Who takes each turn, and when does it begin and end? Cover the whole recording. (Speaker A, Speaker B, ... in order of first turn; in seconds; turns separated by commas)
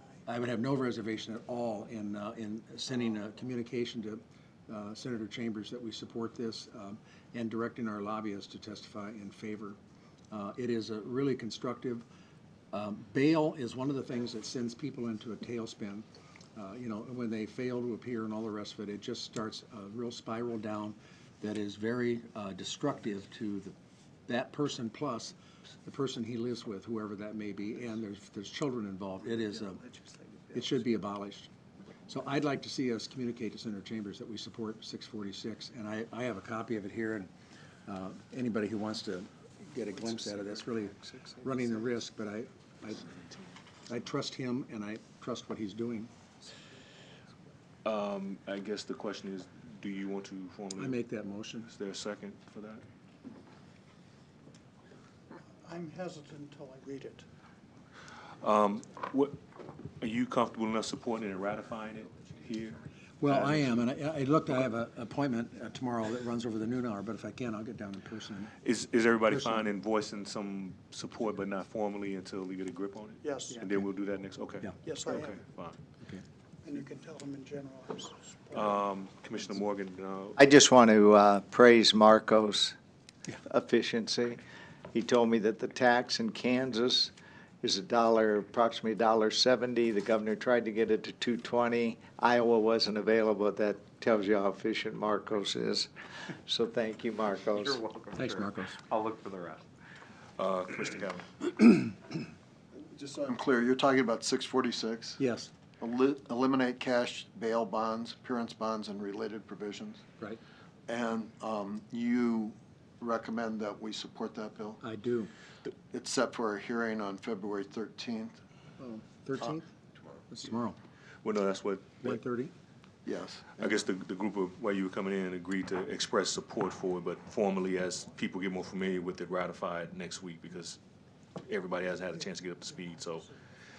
Speaker A: 0.2-9.8, Speaker A: 10.3-12.0, Speaker A: 12.7-23.7, Speaker A: 24.3-30.0, Speaker A: 30.5-31.5, Speaker A: 32.0-37.3, Speaker A: 37.9-43.1, Speaker A: 43.9-46.1, Speaker B: 47.8-51.0, Speaker A: 50.8-51.7, Speaker B: 51.7-52.8, Speaker C: 55.7-57.2, Speaker B: 58.4-59.4, Speaker B: 60.0-63.8, Speaker A: 63.2-68.5, Speaker B: 68.6-75.8, Speaker A: 69.3-69.7, Speaker C: 73.2-73.6, Speaker C: 74.8-75.4, Speaker C: 76.6-78.7, Speaker B: 78.5-80.4, Speaker D: 80.3-82.8, Speaker D: 83.4-84.4, Speaker D: 84.9-97.8, Speaker E: 97.6-99.6, Speaker A: 98.1-98.8, Speaker B: 100.4-101.7, Speaker F: 102.9-105.2, Speaker A: 105.2-105.5, Speaker F: 105.8-110.0, Speaker F: 110.9-114.8, Speaker A: 114.8-115.3, Speaker F: 115.9-118.4, Speaker A: 118.8-119.7, Speaker A: 120.3-120.8, Speaker B: 121.2-122.2, Speaker A: 122.0-122.5, Speaker F: 123.0-123.8, Speaker B: 123.5-130.8, Speaker B: 131.4-133.3